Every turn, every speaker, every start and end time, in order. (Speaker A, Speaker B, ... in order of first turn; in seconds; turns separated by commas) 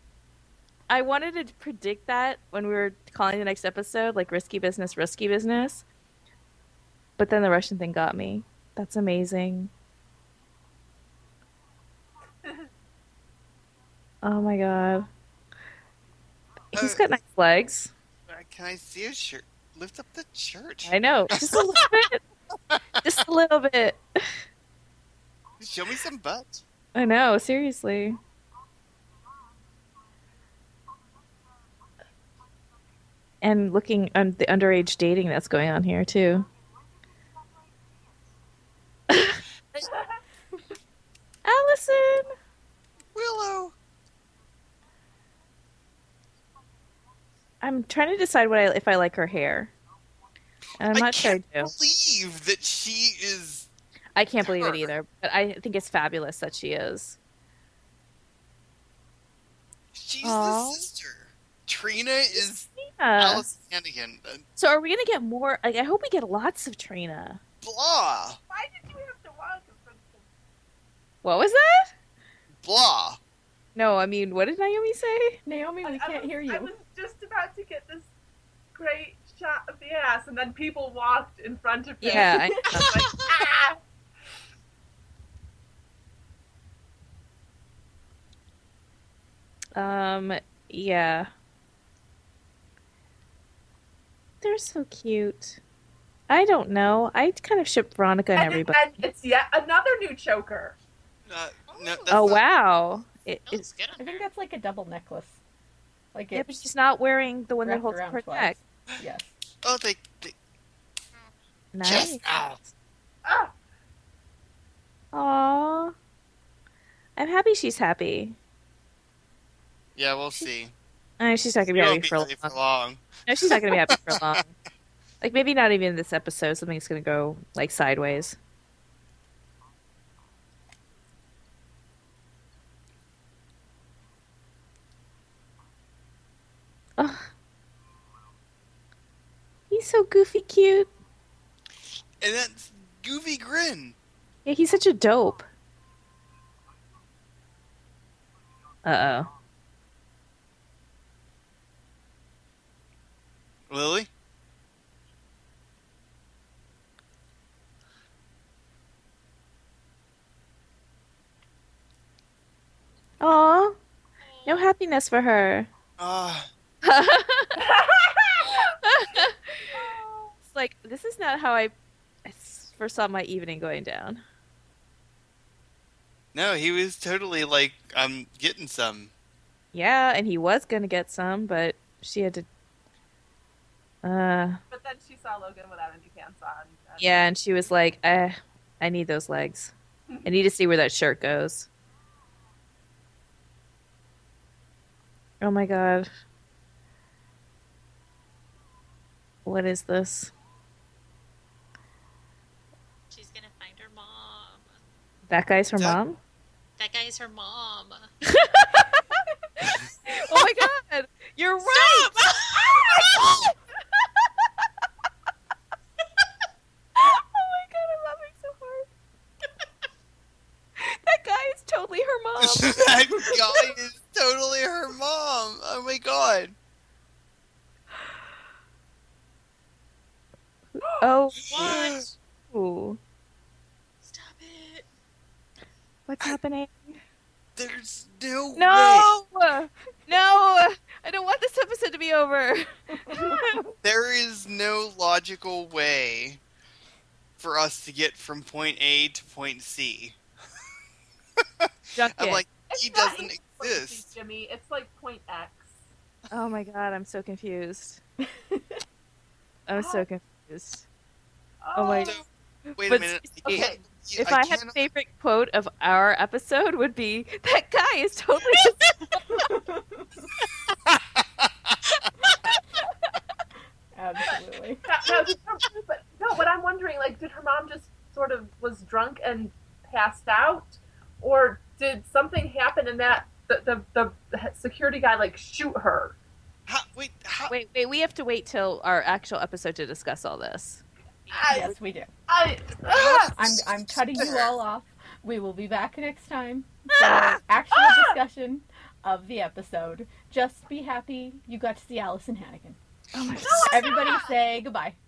Speaker A: 0.9-5.8, Speaker A: 7.2-9.7, Speaker A: 14.2-15.1, Speaker A: 16.7-17.9, Speaker B: 16.7-17.0, Speaker B: 18.3-21.9, Speaker A: 20.8-22.2, Speaker B: 22.5-22.8, Speaker A: 23.0-24.3, Speaker B: 25.6-26.6, Speaker A: 26.9-28.2, Speaker A: 33.4-36.5, Speaker A: 39.1-39.9, Speaker A: 41.4-42.3, Speaker B: 43.1-43.7, Speaker A: 47.6-49.7, Speaker A: 50.8-51.7, Speaker B: 50.9-53.7, Speaker A: 54.1-57.2, Speaker B: 54.4-54.9, Speaker B: 59.9-64.4, Speaker A: 60.2-60.8, Speaker A: 62.8-63.5, Speaker A: 64.6-67.4, Speaker B: 67.6-68.4, Speaker C: 68.5-70.2, Speaker A: 71.2-71.9, Speaker B: 72.6-73.2, Speaker A: 73.7-75.4, Speaker D: 75.5-76.7, Speaker C: 75.8-78.1, Speaker C: 78.7-83.8, Speaker A: 82.0-83.0, Speaker D: 82.1-82.6, Speaker E: 82.1-83.3, Speaker A: 89.7-91.3, Speaker A: 94.4-95.6, Speaker A: 96.3-99.0, Speaker C: 98.3-100.8, Speaker B: 101.3-102.4, Speaker E: 101.7-102.1, Speaker A: 102.1-103.7, Speaker E: 103.5-104.2, Speaker D: 104.0-105.4, Speaker D: 106.1-106.5, Speaker A: 106.3-108.5, Speaker D: 107.6-109.3, Speaker B: 109.6-110.3, Speaker A: 111.7-112.2, Speaker B: 111.8-112.6, Speaker C: 113.2-113.5, Speaker A: 115.1-115.9, Speaker A: 117.2-118.3, Speaker B: 120.0-120.7, Speaker A: 121.2-122.5, Speaker B: 121.7-124.2, Speaker A: 123.2-124.5, Speaker A: 125.2-128.4, Speaker A: 137.0-137.3, Speaker A: 139.7-140.9, Speaker B: 142.2-143.9, Speaker A: 144.4-145.4, Speaker A: 148.8-149.3, Speaker B: 153.7-154.1, Speaker A: 163.2-163.8, Speaker A: 164.4-165.7, Speaker B: 166.0-166.5, Speaker A: 166.8-167.6, Speaker C: 167.6-168.8, Speaker A: 168.8-169.8, Speaker C: 169.7-170.3, Speaker A: 170.5-171.7, Speaker A: 172.2-174.2, Speaker B: 176.3-179.1, Speaker A: 179.7-182.5, Speaker A: 184.0-184.6, Speaker C: 184.7-187.2, Speaker A: 187.0-189.7, Speaker A: 190.2-191.7, Speaker A: 195.4-196.1, Speaker A: 199.4-200.3, Speaker E: 203.1-204.7, Speaker A: 205.3-206.2, Speaker E: 206.8-208.1, Speaker A: 208.3-209.0, Speaker A: 209.6-212.3, Speaker E: 211.6-213.3, Speaker A: 212.8-213.4, Speaker A: 216.9-218.9, Speaker A: 220.8-223.6, Speaker B: 222.4-226.5, Speaker A: 230.7-231.7, Speaker E: 231.5-232.1, Speaker B: 231.5-232.1, Speaker A: 232.5-233.0, Speaker E: 234.0-234.9, Speaker A: 236.1-237.0, Speaker B: 237.6-239.1, Speaker A: 238.6-243.7, Speaker D: 243.1-243.6, Speaker B: 243.8-246.4, Speaker B: 247.4-250.2, Speaker B: 251.4-254.1, Speaker A: 251.9-252.4, Speaker C: 252.7-255.8, Speaker A: 256.3-258.0, Speaker D: 258.5-258.8, Speaker A: 259.7-260.8, Speaker C: 259.7-260.0, Speaker C: 261.6-262.2, Speaker A: 261.7-262.1, Speaker A: 262.7-263.6, Speaker B: 262.8-264.9, Speaker C: 263.4-263.8, Speaker A: 264.2-269.0, Speaker D: 269.3-270.3, Speaker B: 270.9-271.8, Speaker D: 273.9-274.8, Speaker C: 274.8-286.1, Speaker B: 286.7-287.5, Speaker A: 287.5-290.8, Speaker E: 291.3-291.5, Speaker C: 291.3-291.7, Speaker D: 291.5-292.1, Speaker C: 292.3-293.3, Speaker B: 292.9-294.6, Speaker D: 293.4-302.8, Speaker A: 297.0-297.4, Speaker C: 297.7-298.2, Speaker A: 303.1-303.9, Speaker C: 303.4-304.4, Speaker D: 303.6-305.0